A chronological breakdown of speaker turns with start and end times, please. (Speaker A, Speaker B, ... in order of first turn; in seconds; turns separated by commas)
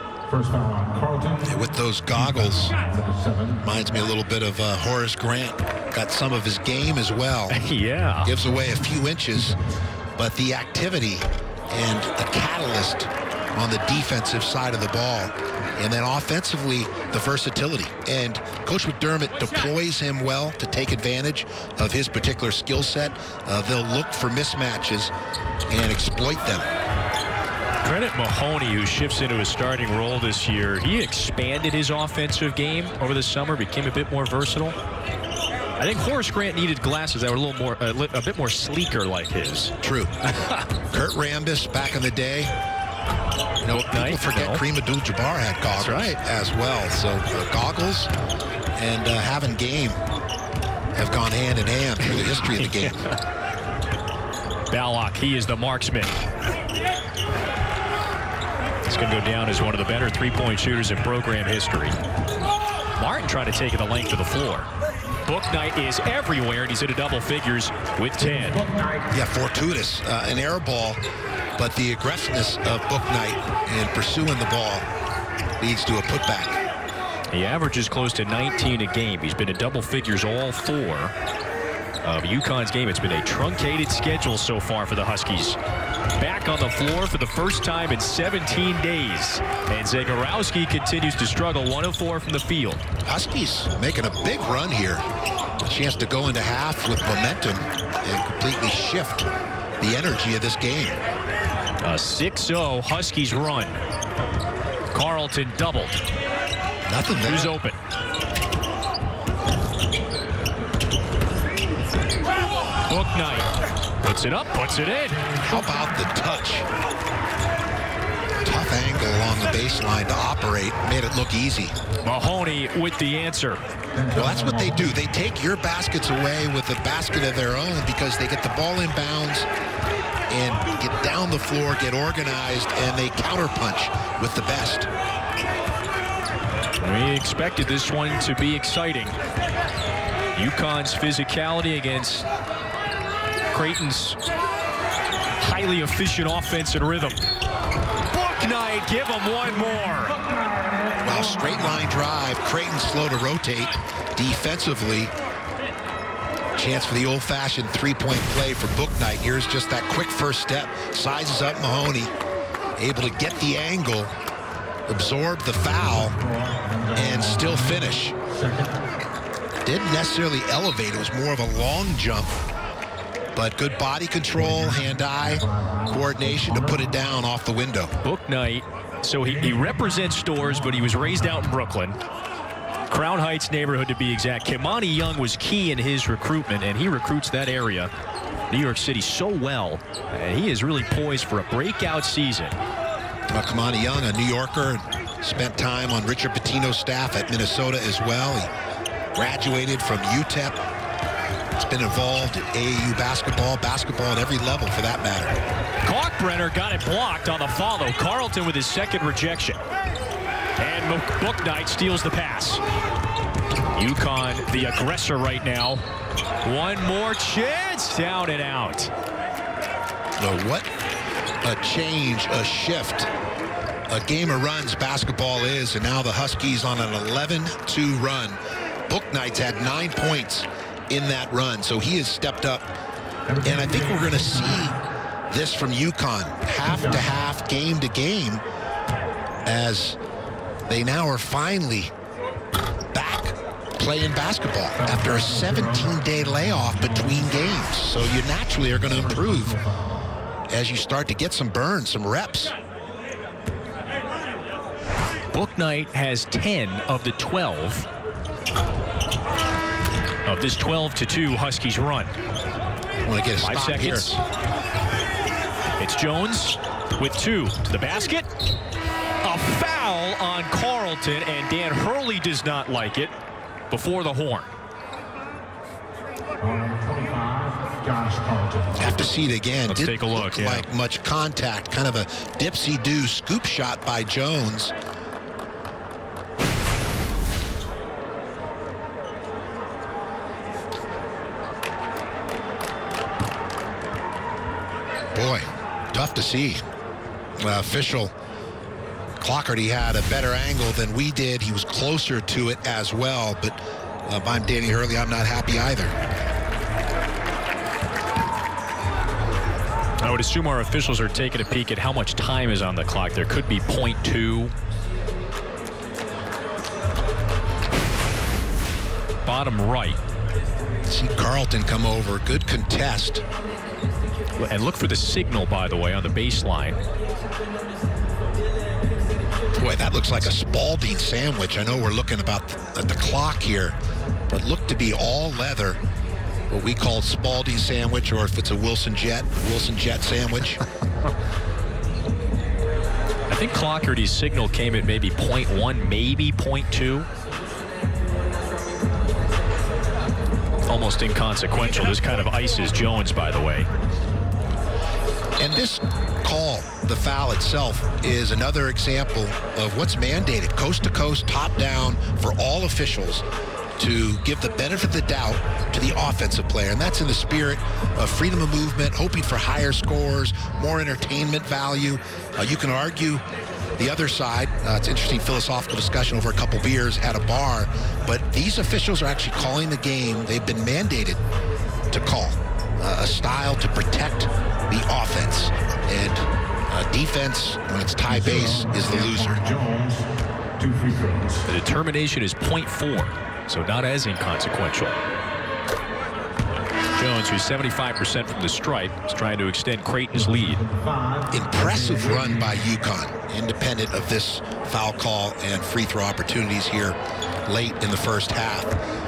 Speaker A: 0.3-1.5, Speaker B: 1.4-2.7, Speaker A: 2.1-3.6, Speaker B: 3.6-7.6, Speaker C: 7.5-8.3, Speaker B: 8.2-9.6, Speaker B: 10.2-25.1, Speaker B: 25.7-26.6, Speaker C: 27.8-34.8, Speaker C: 35.8-40.7, Speaker B: 39.8-40.1, Speaker B: 40.9-42.5, Speaker C: 43.6-44.6, Speaker B: 43.9-48.1, Speaker C: 45.7-46.2, Speaker B: 48.7-50.0, Speaker B: 50.9-53.0, Speaker C: 52.0-53.2, Speaker C: 54.7-56.2, Speaker C: 58.8-62.0, Speaker C: 63.0-64.7, Speaker C: 65.2-68.6, Speaker A: 68.2-69.1, Speaker B: 69.1-71.0, Speaker B: 71.6-74.9, Speaker B: 75.6-76.6, Speaker C: 77.3-81.1, Speaker C: 82.0-85.6, Speaker C: 86.2-92.8, Speaker B: 93.0-95.0, Speaker B: 95.6-99.3, Speaker B: 99.8-101.0, Speaker C: 101.8-103.8, Speaker C: 104.9-106.0, Speaker B: 106.9-107.5, Speaker C: 107.2-107.8, Speaker C: 112.9-113.5, Speaker C: 114.0-115.2, Speaker A: 115.1-116.0, Speaker B: 115.4-116.7, Speaker B: 118.4-121.8, Speaker C: 122.0-123.6, Speaker A: 123.9-125.0, Speaker B: 124.1-129.5, Speaker B: 130.3-134.9, Speaker C: 136.8-139.1, Speaker C: 140.3-142.3, Speaker C: 143.5-144.2, Speaker C: 145.4-147.2, Speaker C: 148.1-150.2, Speaker B: 151.0-155.1, Speaker B: 156.6-162.1, Speaker B: 162.8-164.1, Speaker B: 164.9-166.2, Speaker A: 165.6-168.8, Speaker B: 166.9-168.1, Speaker B: 169.6-172.3, Speaker B: 173.3-177.9, Speaker A: 174.3-177.0, Speaker C: 178.0-182.0, Speaker A: 179.2-181.6, Speaker C: 182.9-187.9, Speaker C: 188.5-192.6, Speaker B: 193.3-198.5, Speaker B: 199.1-200.6, Speaker B: 201.5-205.4, Speaker C: 205.8-209.6, Speaker C: 210.6-212.6, Speaker C: 213.7-215.8, Speaker C: 216.4-218.9, Speaker B: 220.2-220.7, Speaker B: 221.4-223.1, Speaker B: 223.9-232.7, Speaker A: 233.3-234.8, Speaker B: 233.4-234.8, Speaker B: 235.3-238.4, Speaker A: 236.6-237.2, Speaker B: 239.4-240.0, Speaker B: 240.7-241.9, Speaker B: 242.9-249.6, Speaker A: 244.8-247.4, Speaker A: 248.8-249.9, Speaker B: 250.5-252.5, Speaker C: 255.3-257.9, Speaker C: 260.2-262.1, Speaker B: 263.0-264.1, Speaker C: 263.4-264.2, Speaker C: 265.8-268.3, Speaker C: 269.2-273.1, Speaker C: 273.7-274.5, Speaker A: 276.4-279.1, Speaker B: 278.8-284.7, Speaker C: 279.7-280.6, Speaker B: 295.1-296.6, Speaker B: 297.4-298.1, Speaker B: 299.2-305.9, Speaker C: 310.0-314.5, Speaker C: 319.2-320.0, Speaker B: 320.9-323.2, Speaker C: 324.4-326.8, Speaker B: 329.6-333.8, Speaker B: 334.3-335.8, Speaker B: 336.5-340.6, Speaker C: 343.3-347.1, Speaker C: 350.7-353.7, Speaker B: 355.4-363.2, Speaker B: 363.8-373.2, Speaker B: 373.8-381.2, Speaker B: 381.9-389.4, Speaker A: 388.1-391.4, Speaker C: 391.5-395.0, Speaker C: 396.9-400.6, Speaker A: 400.1-402.7, Speaker B: 401.3-408.8